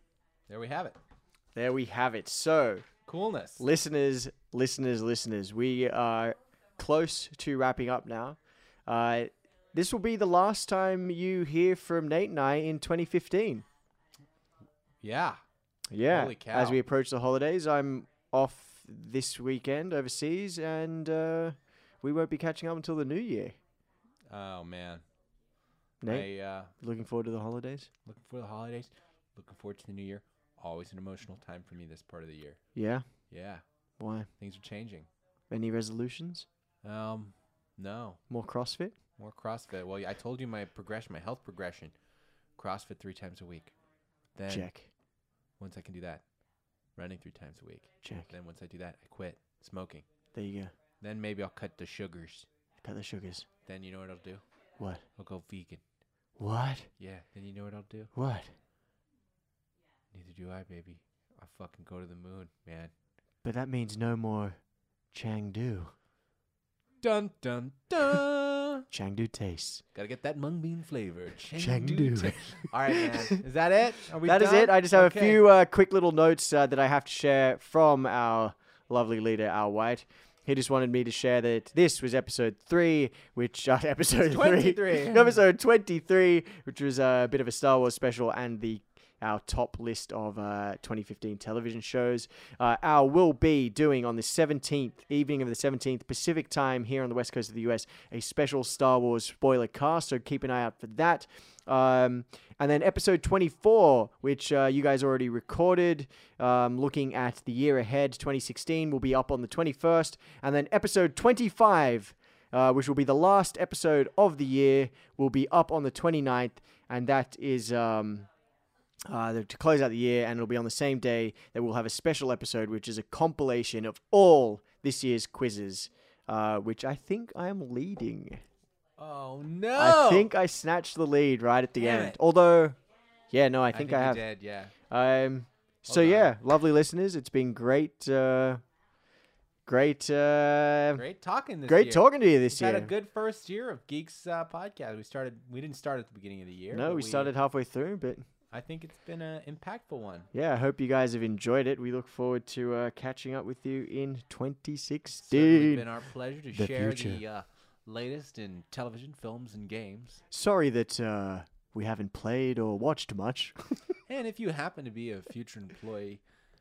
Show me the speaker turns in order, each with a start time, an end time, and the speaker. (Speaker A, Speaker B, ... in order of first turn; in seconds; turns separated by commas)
Speaker A: 0.5-1.0, Speaker B: 1.5-2.9, Speaker A: 3.1-3.6, Speaker B: 3.6-13.6, Speaker A: 15.0-15.4, Speaker B: 15.9-23.5, Speaker A: 16.1-16.8, Speaker A: 24.3-25.0, Speaker B: 26.0-27.9, Speaker A: 26.1-26.7, Speaker A: 28.1-32.6, Speaker B: 32.7-33.0, Speaker A: 33.3-33.6, Speaker B: 34.0-34.3, Speaker A: 34.4-35.1, Speaker B: 35.5-36.5, Speaker A: 36.8-38.2, Speaker B: 38.3-38.9, Speaker A: 39.2-41.9, Speaker A: 42.6-43.7, Speaker A: 44.3-44.7, Speaker B: 44.5-44.9, Speaker A: 45.6-46.2, Speaker A: 47.0-50.0, Speaker B: 48.0-48.3, Speaker B: 50.3-50.7, Speaker A: 51.0-52.5, Speaker B: 52.8-53.5, Speaker A: 53.6-54.4, Speaker A: 55.2-55.8, Speaker B: 56.4-56.9, Speaker A: 57.0-58.1, Speaker B: 58.1-58.5, Speaker A: 60.1-62.9, Speaker B: 63.4-64.6, Speaker B: 65.1-65.9, Speaker A: 67.0-68.8, Speaker B: 68.9-69.8, Speaker A: 69.9-75.4, Speaker B: 71.5-73.4, Speaker B: 74.2-118.3, Speaker A: 84.2-85.4, Speaker B: 119.0-128.4, Speaker A: 129.0-130.3, Speaker B: 129.8-132.8, Speaker A: 131.8-132.2, Speaker B: 133.3-134.2, Speaker A: 133.7-134.7, Speaker B: 134.9-138.6, Speaker A: 135.9-136.3, Speaker B: 139.7-141.0, Speaker A: 140.9-147.3, Speaker B: 141.7-142.9, Speaker B: 146.7-148.2, Speaker A: 148.5-150.3, Speaker B: 150.3-155.8, Speaker A: 155.2-160.2, Speaker B: 156.5-157.2, Speaker B: 160.3-163.9, Speaker A: 164.1-166.2